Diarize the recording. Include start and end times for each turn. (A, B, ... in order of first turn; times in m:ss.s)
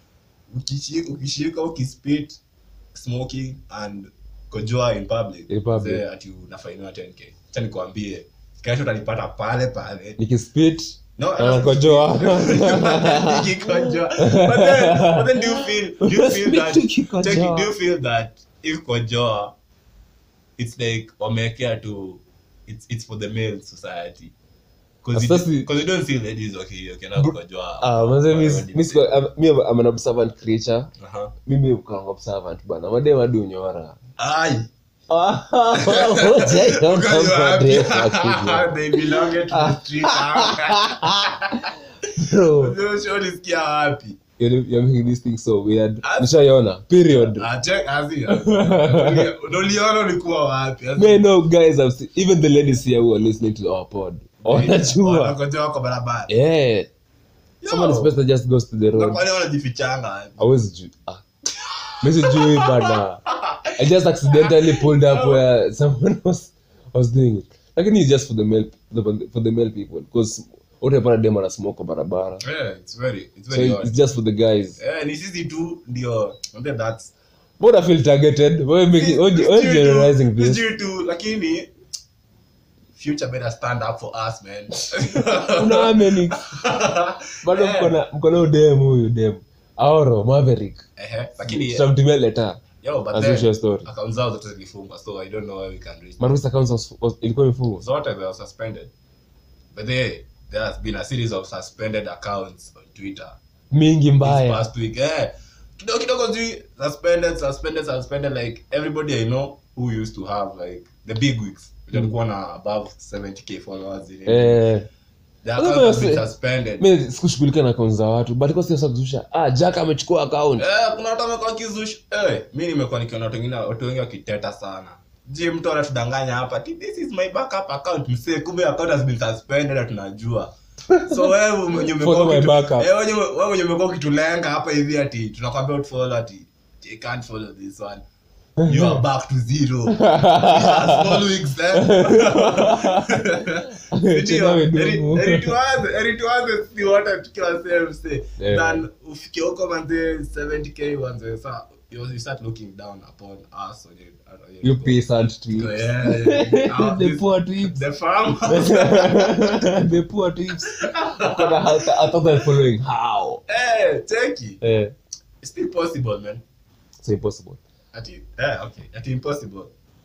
0:00.5-0:02.4 A
0:02.9-0:10.2 A
0:05.5-0:06.0 B
0:10.2-0:17.7 B
0:11.2-0:19.5 A
0:20.6-0:24.3 A
0:25.0-0:29.2 A
0:25.1-0:25.7 B
0:27.2-0:30.9 B
0:31.0-0:31.3 A
0:31.4-0:34.0 B
0:34.2-0:34.7 A
0:35.1-0:41.6 B
0:35.8-0:41.7 A
0:42.2-0:42.8 B
0:42.5-0:44.2 A
0:44.4-0:47.4 B
0:46.0-0:46.3 A
0:47.1-0:51.3 A
0:48.3-0:49.3 B
0:51.0-0:55.3 B
0:54.4-0:56.3 A
0:56.3-0:56.9 B
0:57.6-0:58.2 A
0:57.6-0:59.2 B
0:58.9-1:00.5 A
1:00.4-1:01.2 B
1:01.6-1:03.7 A
1:02.0-1:03.2 B
1:03.8-1:12.4 B
1:04.3-1:05.4 A
1:12.4-1:13.9 A
1:13.5-1:14.8 B
1:14.8-1:17.1 A
1:17.6-1:20.6 B
1:19.0-1:21.7 A
1:22.9-1:28.0 A
1:25.6-1:26.4 B
1:27.4-1:30.8 B
1:31.0-1:31.9 A
1:31.4-1:32.6 B
1:32.8-1:36.4 A
1:33.1-1:33.9 B
1:36.2-1:37.8 B
1:37.8-1:38.9 A
1:39.7-1:43.4 A
1:43.7-1:44.6 B
1:44.2-1:54.6 A
1:54.2-1:54.9 B
1:55.4-1:56.8 A
1:55.6-1:56.2 B
1:56.8-2:00.6 B
2:00.6-2:18.0 A
2:10.9-2:11.3 B
2:11.8-2:12.9 B
2:18.6-2:19.0 B
2:18.6-2:39.7 A
2:19.9-2:21.2 B
2:21.8-2:23.1 B
2:23.9-2:25.5 B
2:28.4-2:28.8 B
2:34.6-2:37.8 B
2:38.4-2:43.4 B
2:40.6-2:42.2 A
2:43.5-2:44.6 A
2:44.6-2:44.9 B
2:45.4-2:46.4 A
2:47.0-2:47.6 B
2:47.9-2:49.7 A